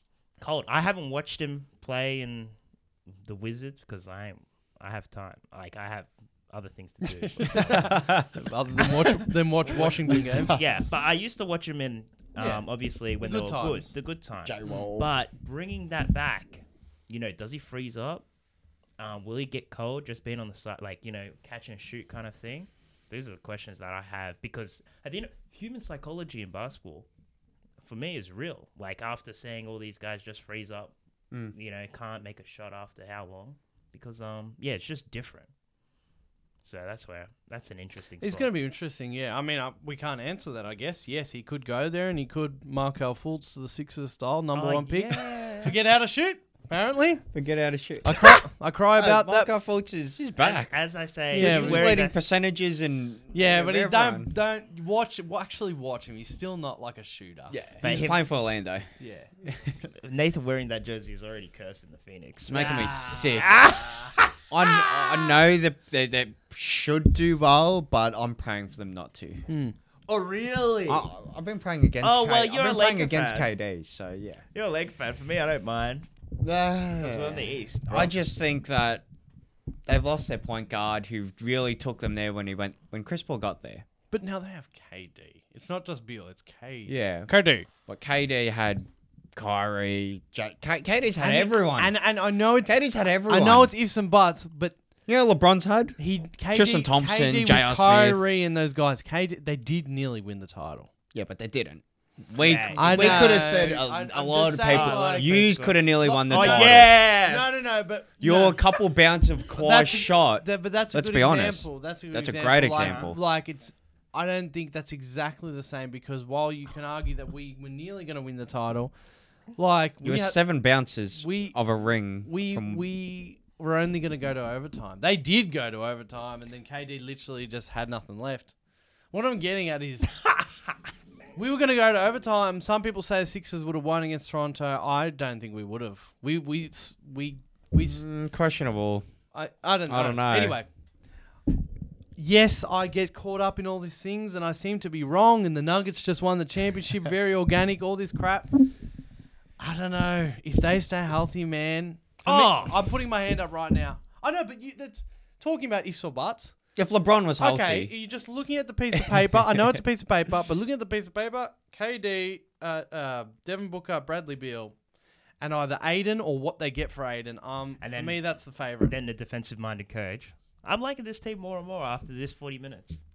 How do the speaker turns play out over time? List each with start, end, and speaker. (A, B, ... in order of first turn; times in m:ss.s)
0:00.4-0:02.6 A
0:03.2-0:08.0 A
0:07.4-0:10.6 B
0:07.7-0:08.9 C
0:09.7-0:18.2 A
0:10.1-0:10.6 C
0:12.4-0:12.6 B
0:13.2-0:13.9 B
0:14.4-0:15.1 C
0:19.0-0:27.0 A
0:27.8-0:30.9 A
0:31.5-0:35.5 A
0:36.6-0:38.5 A
0:38.2-0:47.2 B
0:44.6-0:45.8 A
0:47.3-0:48.4 C
0:48.0-0:49.5 B
0:49.0-0:50.8 C
0:50.4-0:52.1 A
0:51.3-0:54.3 C
0:51.3-0:52.0 B
0:53.3-0:58.1 B
0:57.5-0:58.9 C
0:57.8-0:58.2 A
0:59.0-0:59.3 B
0:59.4-0:59.8 C
0:59.9-1:05.0 A
1:02.4-1:03.6 C
1:02.5-1:04.1 B
1:04.5-1:09.4 C
1:09.5-1:09.8 B
1:10.1-1:11.1 A
1:10.9-1:14.4 C
1:12.0-1:13.5 A
1:14.5-1:16.1 A
1:16.4-1:19.0 C
1:17.0-1:18.1 A
1:19.9-1:23.8 C
1:24.1-1:27.7 B
1:26.9-1:27.3 C
1:27.9-1:32.0 C
1:31.2-1:34.7 B
1:32.6-1:33.7 C
1:35.1-1:36.0 C
1:36.0-1:40.9 B
1:36.5-1:38.2 C
1:41.1-1:46.9 C
1:42.4-1:43.5 A
1:42.8-1:48.6 B
1:44.6-1:47.4 A
1:48.2-1:53.2 C
1:49.6-1:58.9 B
1:52.8-1:53.1 A
1:59.6-2:00.4 B
2:00.0-2:02.8 C
2:01.2-2:01.6 B
2:02.2-2:08.6 B
2:09.1-2:10.4 B
2:11.3-2:18.0 B
2:17.8-2:19.0 C
2:19.3-2:20.7 B
2:19.9-2:20.6 C
2:22.2-2:28.7 B
2:29.6-2:36.6 B
2:32.2-2:32.8 A
2:36.7-2:37.9 C
2:37.4-2:44.7 B
2:39.3-2:39.8 C
2:45.4-2:48.9 B
2:47.8-2:48.2 A
2:48.8-2:53.0 A